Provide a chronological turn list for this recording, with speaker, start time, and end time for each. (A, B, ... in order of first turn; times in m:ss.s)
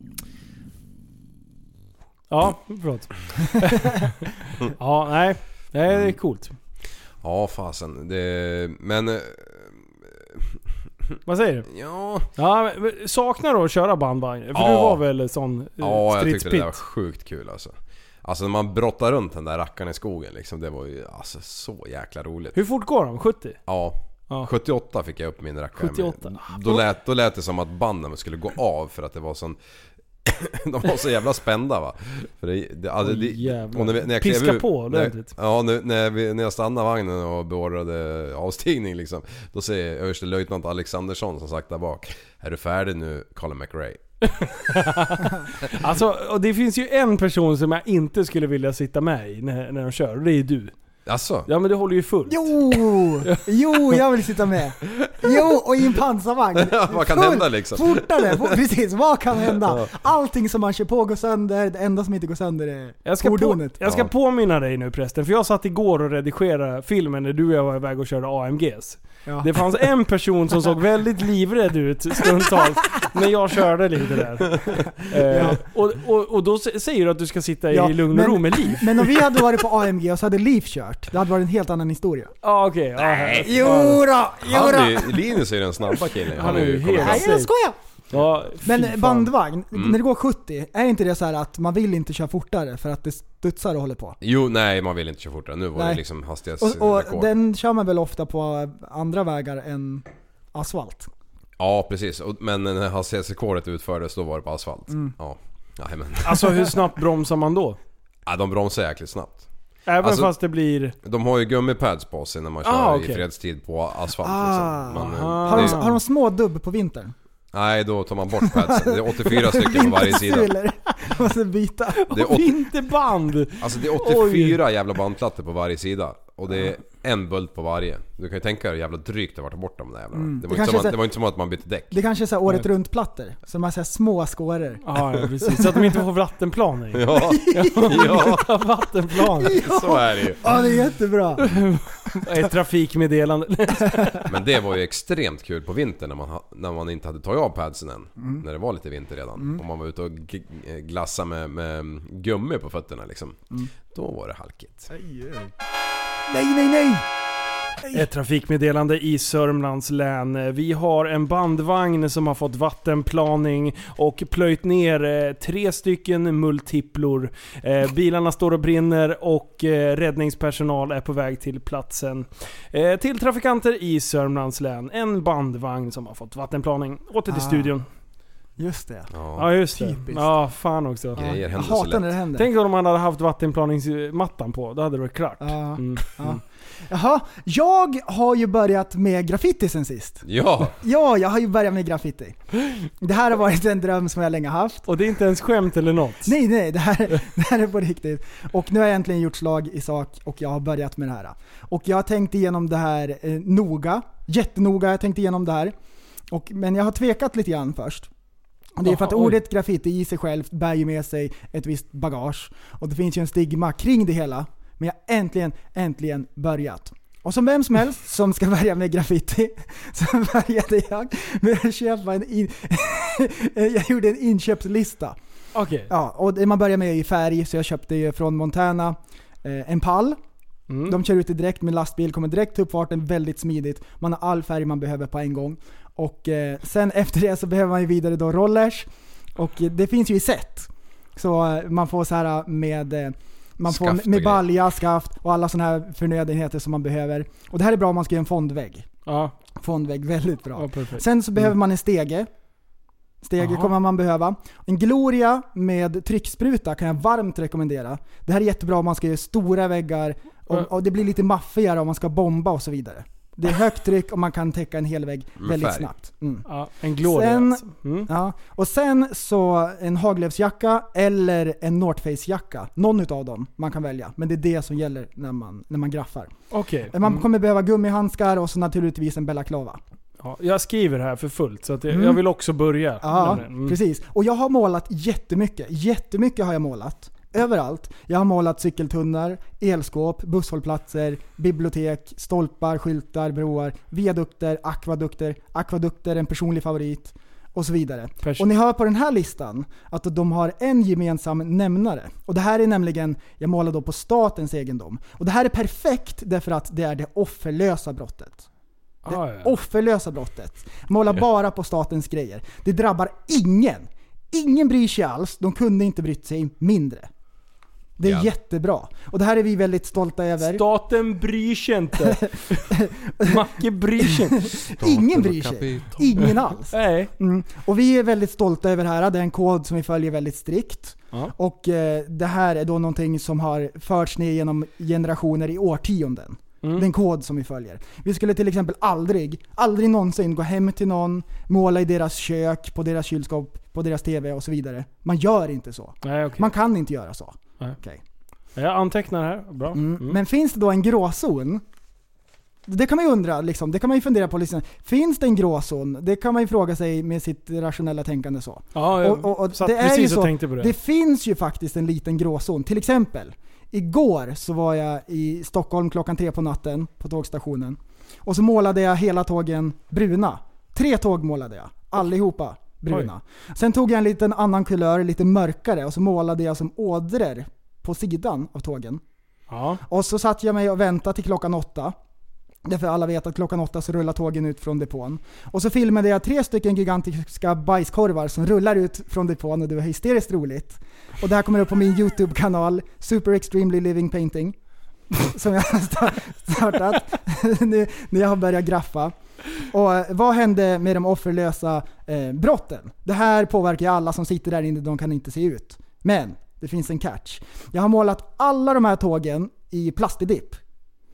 0:02.3-0:06.5 A
0:05.9-0:06.2 B
0:07.2-0:10.6 B
0:11.2-0:11.7 A
0:11.7-0:12.3 B
0:12.4-0:16.8 A
0:14.5-0:15.0 B
0:15.8-0:22.6 B
0:22.5-0:23.6 A
0:23.7-0:29.6 B
0:25.8-0:26.8 A
0:30.2-0:44.0 B
0:33.0-0:35.3 A
0:44.2-0:50.7 A
0:51.0-0:51.5 B
0:51.5-0:54.0 A
0:52.3-1:03.8 C
0:55.0-0:55.4 B
0:56.5-0:58.6 B
0:59.5-0:59.9 B
1:03.0-1:19.1 A
1:03.8-1:04.1 B
1:09.2-1:09.5 C
1:15.3-1:15.6 C
1:17.7-1:22.3 C
1:22.4-1:24.0 A
1:23.0-1:23.8 B
1:23.4-1:26.0 C
1:24.4-1:27.3 B
1:26.3-1:27.5 A
1:27.0-1:27.8 C
1:28.1-1:29.3 A
1:28.6-1:34.2 C
1:34.2-1:37.3 B
1:35.7-1:36.0 C
1:36.6-1:41.1 C
1:41.6-1:46.6 B
1:46.2-1:47.8 A
1:48.2-1:49.5 B
1:49.9-1:50.9 A
1:50.0-1:50.3 B
1:51.0-1:55.8 B
1:52.6-1:53.2 A
1:54.2-1:57.1 C
1:54.9-1:56.0 A
1:57.5-2:00.5 B
1:58.4-2:02.6 C
2:02.0-2:04.6 A
2:02.1-2:02.5 B
2:03.6-2:12.0 B
2:10.2-2:11.0 C
2:11.9-2:14.8 C
2:14.8-2:19.6 A
2:16.9-2:18.5 B
2:17.1-2:18.3 C
2:19.4-2:21.4 C
2:19.5-2:20.4 B
2:21.4-2:24.2 A
2:24.2-2:34.9 B
2:29.4-2:29.6 C
2:34.9-2:35.5 C
2:36.3-2:37.1 C
2:37.9-2:57.8 A
2:57.3-2:57.7 C
2:58.6-2:59.1 C
2:59.1-2:59.5 B
2:59.4-3:01.2 A
2:59.7-3:00.3 C
3:01.2-3:02.5 C
3:01.2-3:02.1 B
3:02.4-3:06.4 A
3:05.4-3:12.4 C
3:10.2-3:10.8 B
3:13.0-3:14.9 C
3:14.9-3:16.3 A
3:16.2-3:25.7 C
3:26.3-3:28.1 C
3:28.8-3:45.2 C
3:28.8-3:29.4 A
3:45.5-3:45.9 A
3:45.9-3:50.2 C
3:50.7-3:51.0 A
3:50.8-4:08.9 C
4:03.7-4:04.4 B
4:09.0-4:09.3 A
4:09.6-4:12.3 C
4:10.6-4:11.0 A
4:13.2-4:26.4 C
4:13.4-4:13.7 A
4:25.4-4:25.9 B
4:26.5-4:28.1 A
4:27.0-4:36.3 C
4:36.5-4:37.2 A
4:36.9-4:39.8 C
4:40.2-4:43.8 A
4:41.9-4:42.2 C
4:43.0-5:08.4 C
4:58.2-4:58.5 A
5:09.0-5:09.5 A
5:09.1-5:17.1 C
5:18.0-5:20.6 C
5:18.0-5:18.3 B
5:20.4-5:24.5 A
5:22.0-5:48.0 C
5:24.8-5:26.2 B
5:26.2-5:27.1 A
5:46.0-5:46.5 A
5:48.5-5:50.2 A
5:49.7-5:51.6 C
5:52.6-6:19.0 C
5:58.7-6:00.7 A
6:19.5-6:19.8 A
6:19.8-6:22.0 C
6:22.6-6:34.6 C
6:35.1-6:50.6 C